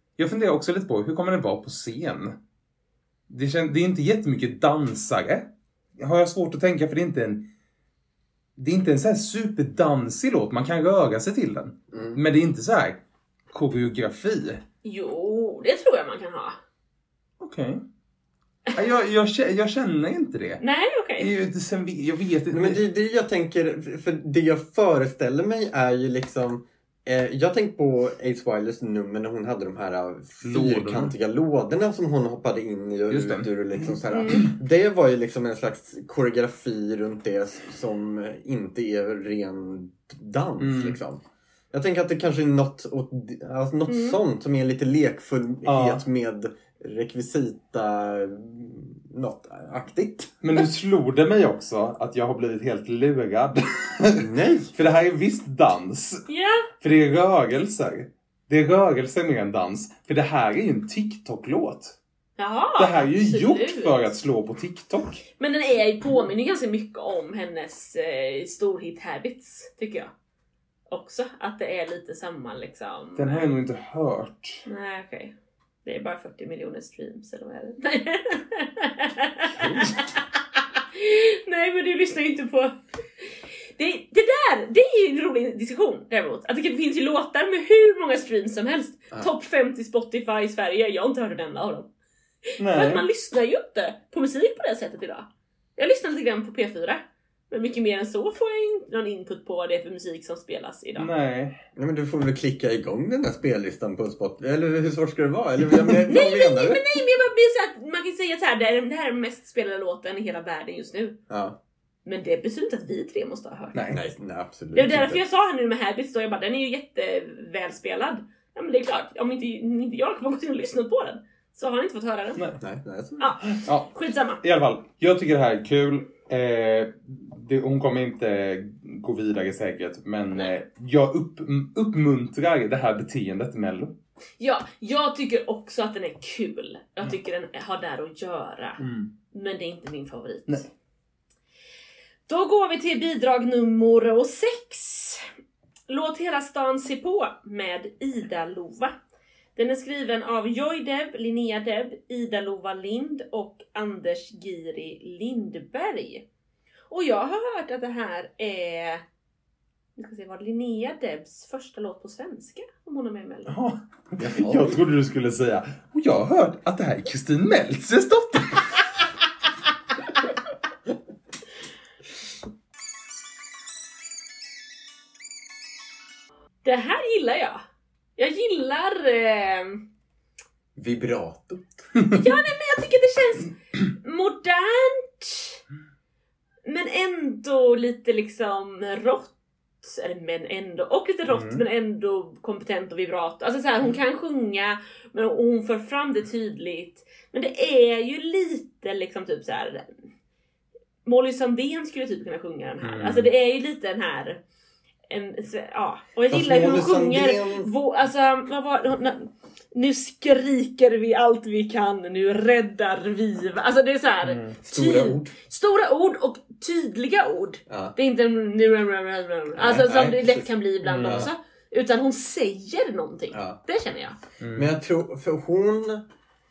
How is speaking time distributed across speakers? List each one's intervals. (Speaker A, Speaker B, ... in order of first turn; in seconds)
Speaker A: 0.2-2.4, 3.3-7.5, 8.6-13.0, 13.5-14.6, 17.4-17.8, 18.7-20.6, 21.2-22.8, 30.4-31.1, 33.1-34.4, 40.6-41.0, 45.6-46.0, 50.4-56.2, 56.8-62.0, 62.8-65.2, 73.2-74.6, 92.6-93.0, 101.0-101.6, 113.7-114.0, 123.4-123.9, 124.4-134.0, 138.8-139.1, 163.5-168.7, 191.3-191.6, 202.8-203.3, 214.2-214.6, 220.8-221.3, 224.4-224.7
Speaker B: 11.9-12.2, 22.5-50.4, 54.2-54.7, 79.6-79.9, 101.8-106.8, 111.3-111.6, 113.9-115.2, 122.6-123.3, 164.2-164.8, 180.8-181.8, 206.3-207.7, 214.7-215.3, 217.7-217.9, 219.6-220.5, 221.0-221.3, 223.3-223.6, 224.6-226.0
Speaker C: 14.8-16.6, 20.6-21.3, 34.1-34.5, 43.9-44.2, 56.3-56.7, 62.4-64.1, 65.4-70.1, 70.9-73.5, 74.7-75.3, 75.8-91.9, 92.5-95.3, 95.8-101.1, 106.0-111.2, 112.0-113.8, 114.7-122.4, 123.2-124.4, 134.4-138.8, 139.3-140.6, 142.3-145.3, 145.9-148.9, 149.6-156.2, 156.9-159.0, 160.0-163.6, 176.6-177.6, 178.2-179.8, 182.1-185.6, 186.7-200.0, 201.1-204.4, 205.1-224.2